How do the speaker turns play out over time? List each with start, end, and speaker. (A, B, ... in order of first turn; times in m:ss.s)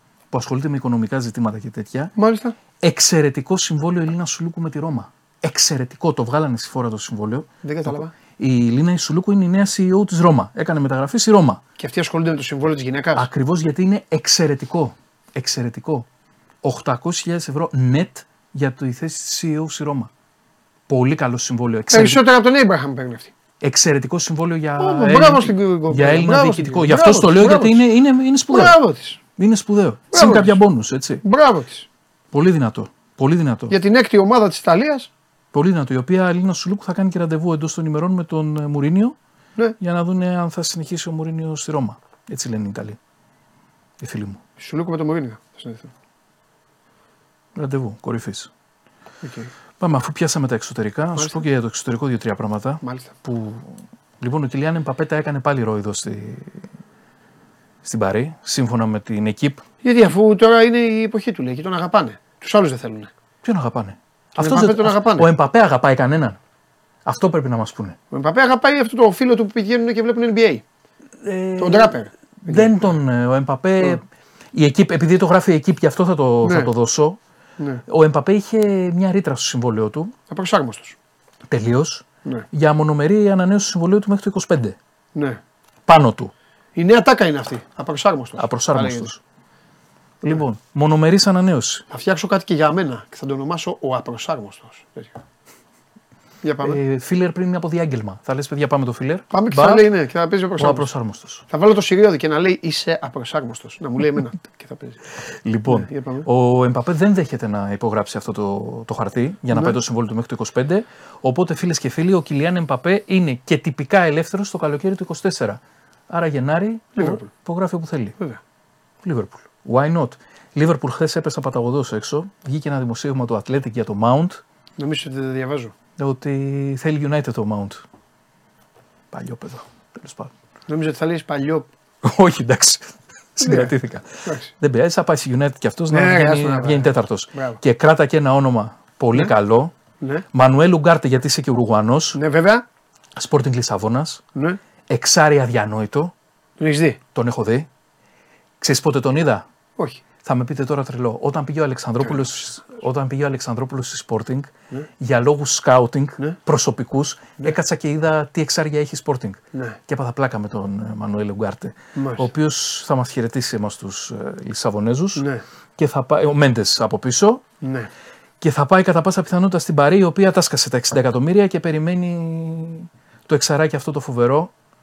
0:00.3-0:02.1 A
0:02.2-0:02.6 B
0:02.8-0:11.6 A
0:07.6-0:08.1 B
0:11.8-0:13.3 B
0:13.2-0:16.1 A
0:16.6-0:20.1 A
0:20.9-0:22.2 A
0:21.9-0:23.3 B
0:23.6-0:28.8 A
0:24.8-0:27.8 B
0:28.5-0:29.2 B
0:29.4-0:31.2 A
0:30.1-0:30.6 B
0:31.2-0:31.9 B
0:32.3-0:33.8 A
0:33.7-0:35.1 B
0:35.5-0:39.2 A
0:39.8-0:43.0 A
0:44.0-0:44.4 A
0:44.6-0:45.9 B
0:47.6-0:48.5 A
0:49.2-0:49.5 B
0:49.8-0:56.7 A
0:51.2-0:51.4 B
0:52.8-0:53.2 B
0:57.8-0:59.6 A
0:59.8-1:03.1 B
1:03.4-1:06.4 A
1:04.4-1:05.3 B
1:07.0-1:08.0 A
1:08.1-1:10.6 B
1:11.2-1:17.2 A
1:11.6-1:12.9 B
1:16.4-1:16.7 B
1:17.9-1:20.2 A
1:20.3-1:21.0 B
1:21.5-1:24.8 A
1:25.2-1:25.4 B
1:25.9-1:26.3 A
1:26.8-1:29.1 B
1:28.4-1:29.2 A
1:30.2-1:31.8 A
1:31.9-1:35.2 B
1:36.4-1:36.8 B
1:36.6-1:39.8 A
1:39.3-1:40.9 B
1:40.6-1:41.4 A
1:41.5-1:45.0 B
1:45.4-1:58.2 A
1:45.7-1:46.3 B
1:49.5-1:49.8 B
1:57.0-1:57.3 B
1:59.0-2:04.4 A
2:04.8-2:05.8 B
2:06.0-2:07.8 A
2:09.1-2:10.3 A
2:10.7-2:11.7 B
2:12.0-2:19.7 A
2:13.4-2:14.5 B
2:15.9-2:17.6 B
2:20.0-2:20.2 B
2:20.3-2:22.2 A
2:22.2-2:22.6 B
2:23.2-2:24.2 A
2:24.9-2:26.1 A
2:26.6-2:27.0 B
2:27.1-2:27.7 A
2:28.6-2:29.5 A
2:29.8-2:30.0 B
2:30.2-2:45.3 A
2:32.0-2:32.8 B
2:42.0-2:42.3 B
2:45.2-2:45.4 B
2:45.8-2:47.4 A
2:47.6-2:47.9 B
2:48.4-2:54.5 A